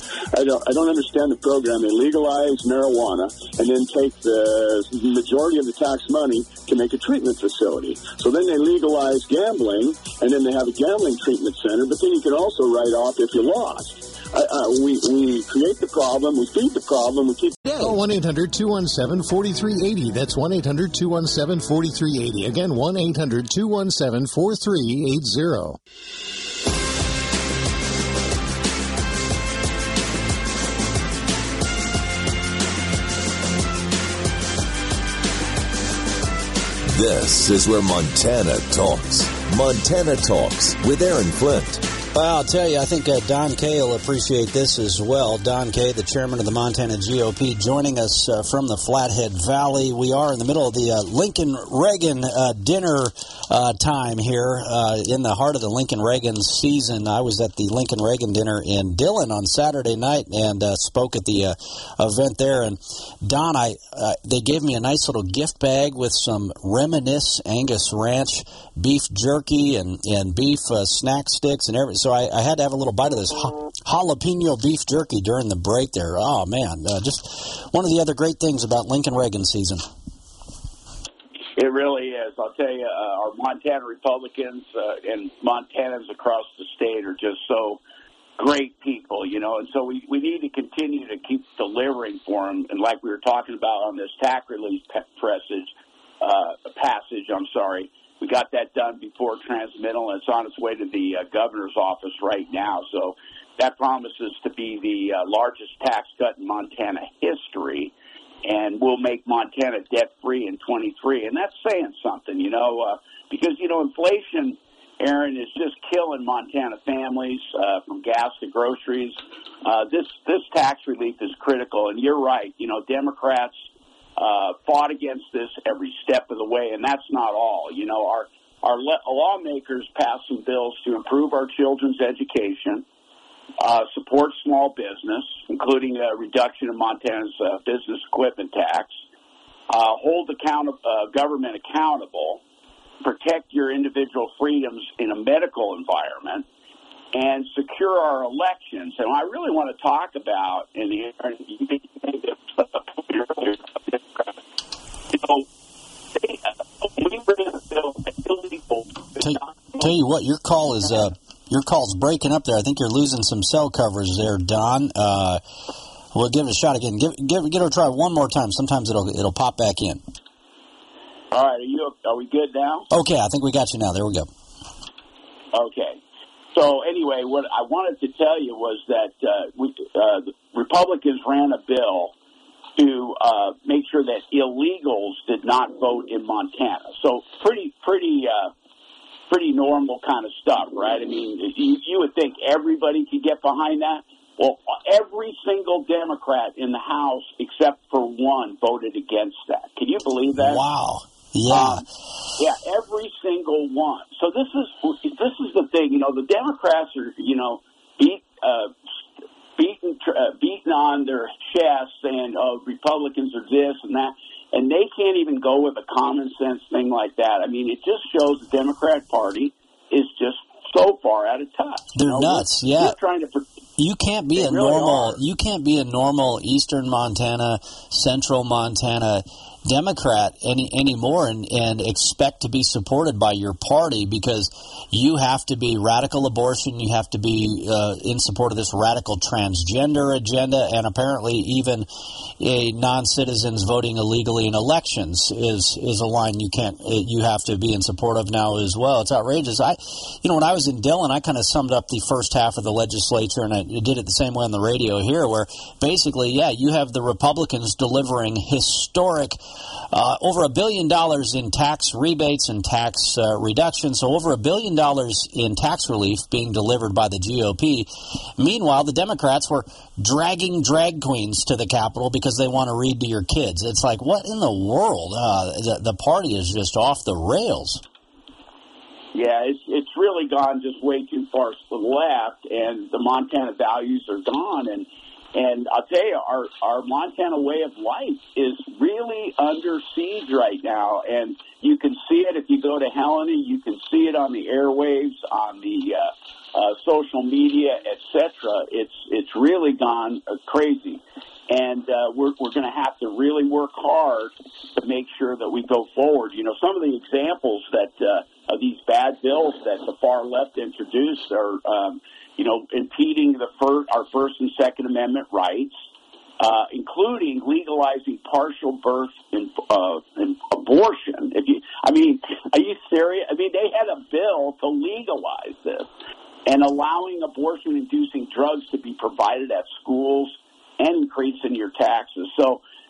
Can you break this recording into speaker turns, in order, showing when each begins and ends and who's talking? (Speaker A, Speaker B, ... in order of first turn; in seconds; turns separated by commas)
Speaker A: 0.3-17.6, Speaker B: 17.6-25.8, Speaker C: 36.9-41.8, Speaker D: 42.1-79.8, Speaker E: 81.5-87.8, Speaker E: 88.4-107.9, Speaker E: 108.4-123.6, Speaker E: 124.2-132.8, Speaker E: 133.6-138.9, Speaker E: 139.7-142.4, Speaker E: 143.0-146.4, Speaker E: 147.1-154.3, Speaker E: 155.1-155.4, Speaker E: 156.2-159.7, Speaker D: 159.2-165.4, Speaker D: 166.1-170.0, Speaker E: 171.3-172.9, Speaker D: 172.9-174.3, Speaker E: 175.5-176.0, Speaker E: 176.5-182.1, Speaker E: 182.8-188.5, Speaker E: 189.3-200.6, Speaker D: 200.4-201.8, Speaker E: 201.5-201.8, Speaker E: 202.4-208.7, Speaker E: 209.6-223.4, Speaker D: 221.9-223.0, Speaker D: 223.8-241.9, Speaker E: 224.3-225.2, Speaker D: 242.4-259.4, Speaker D: 259.9-277.8, Speaker E: 279.1-315.7, Speaker E: 316.4-325.9, Speaker E: 326.4-332.6